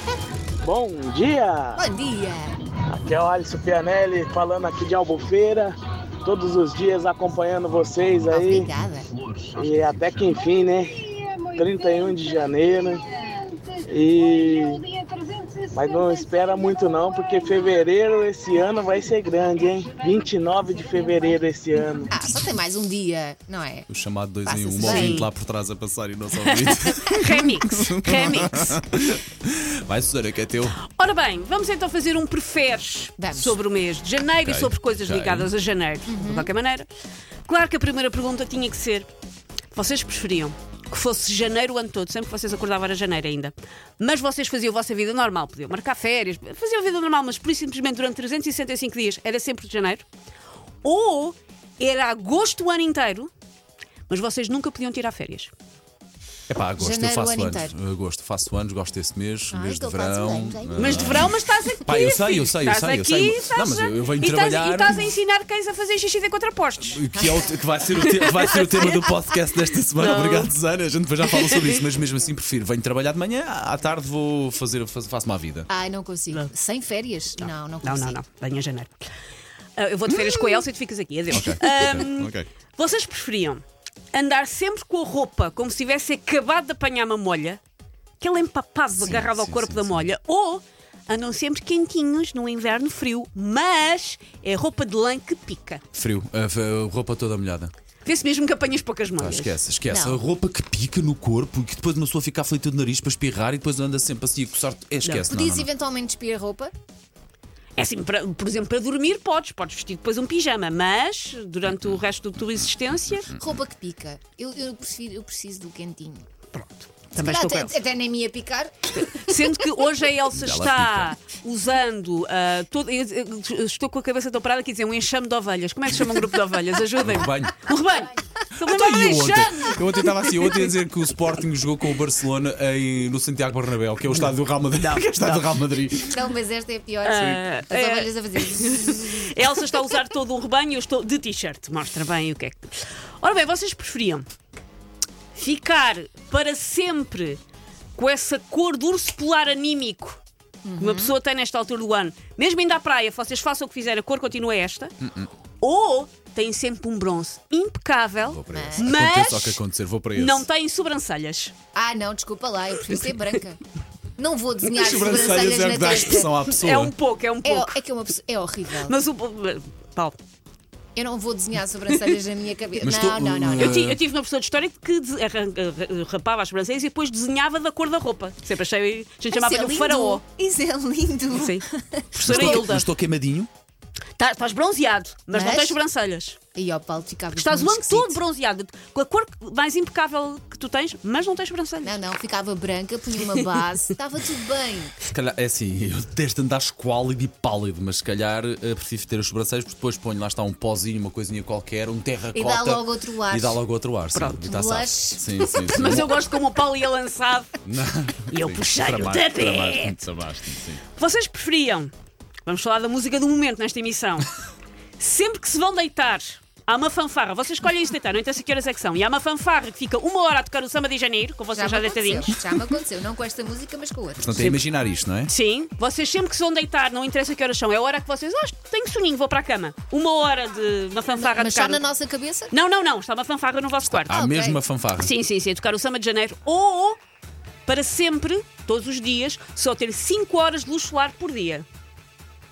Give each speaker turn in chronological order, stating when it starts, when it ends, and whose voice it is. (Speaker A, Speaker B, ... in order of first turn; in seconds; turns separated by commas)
Speaker A: 0.6-1.8, Speaker B: 1.8-2.6, Speaker A: 2.9-8.7, Speaker B: 8.3-9.1, Speaker A: 9.5-13.1, Speaker A: 13.8-14.9, Speaker A: 15.7-22.1, Speaker B: 22.1-23.9, Speaker C: 23.9-30.8, Speaker B: 24.4-25.2, Speaker D: 24.8-25.3, Speaker D: 26.4-28.8, Speaker D: 30.8-36.9, Speaker B: 33.2-33.6, Speaker C: 34.4-35.5, Speaker B: 36.1-36.5, Speaker D: 37.5-39.1, Speaker D: 39.7-50.0, Speaker D: 50.8-53.3, Speaker D: 54.1-55.5, Speaker C: 56.5-61.3, Speaker B: 56.8-57.7, Speaker B: 59.5-61.4, Speaker D: 60.8-67.0, Speaker C: 61.8-65.0, Speaker C: 66.8-75.7, Speaker B: 67.2-67.5, Speaker D: 68.0-69.1, Speaker D: 69.9-70.5, Speaker D: 71.3-71.8, Speaker B: 75.7-78.2, Speaker D: 77.4-79.1, Speaker D: 79.8-87.6, Speaker C: 81.3-82.5, Speaker D: 88.2-95.8, Speaker C: 89.0-90.1, Speaker C: 95.9-97.7, Speaker D: 98.0-99.6, Speaker C: 99.2-105.7, Speaker B: 99.9-100.2, Speaker B: 105.3-106.7, Speaker D: 107.8-113.3, Speaker C: 113.2-113.4, Speaker B: 113.3-116.2, Speaker D: 116.5-117.8, Speaker B: 117.1-119.4, Speaker D: 119.0-130.1, Speaker C: 120.3-121.1, Speaker C: 127.0-127.5, Speaker C: 128.6-136.3, Speaker D: 134.8-135.4, Speaker B: 136.0-139.3, Speaker D: 137.0-144.3, Speaker D: 145.3-147.4, Speaker D: 147.9-150.2, Speaker B: 150.6-151.2, Speaker D: 150.8-154.9, Speaker C: 155.0-155.3, Speaker D: 155.6-159.6, Speaker C: 158.2-160.4, Speaker B: 158.5-158.9, Speaker D: 160.1-161.5, Speaker B: 161.7-163.6, Speaker B: 164.2-166.3, Speaker C: 164.7-166.9, Speaker D: 165.9-167.8, Speaker B: 167.4-168.9, Speaker D: 168.8-170.2, Speaker B: 170.9-173.8, Speaker C: 172.8-174.0, Speaker D: 173.5-180.2, Speaker B: 179.3-182.7, Speaker D: 181.3-182.9, Speaker C: 182.2-183.5, Speaker D: 184.2-186.4, Speaker B: 185.3-185.8, Speaker B: 186.5-188.2, Speaker D: 187.3-192.0, Speaker B: 191.8-195.0, Speaker C: 195.0-206.2, Speaker B: 202.3-203.6, Speaker D: 204.1-204.5, Speaker B: 204.5-205.3, Speaker D: 205.5-207.5, Speaker C: 207.6-210.8, Speaker D: 208.3-210.0, Speaker D: 210.9-211.9, Speaker D: 212.4-214.3, Speaker D: 215.0-222.4, Speaker B: 221.5-224.4, Speaker C: 224.2-225.3, Speaker D: 224.4-224.6, Speaker D: 225.3-231.8, Speaker B: 231.2-232.5, Speaker D: 232.5-234.2, Speaker C: 233.8-235.1, Speaker B: 234.1-234.6, Speaker D: 235.0-237.0, Speaker D: 237.7-241.6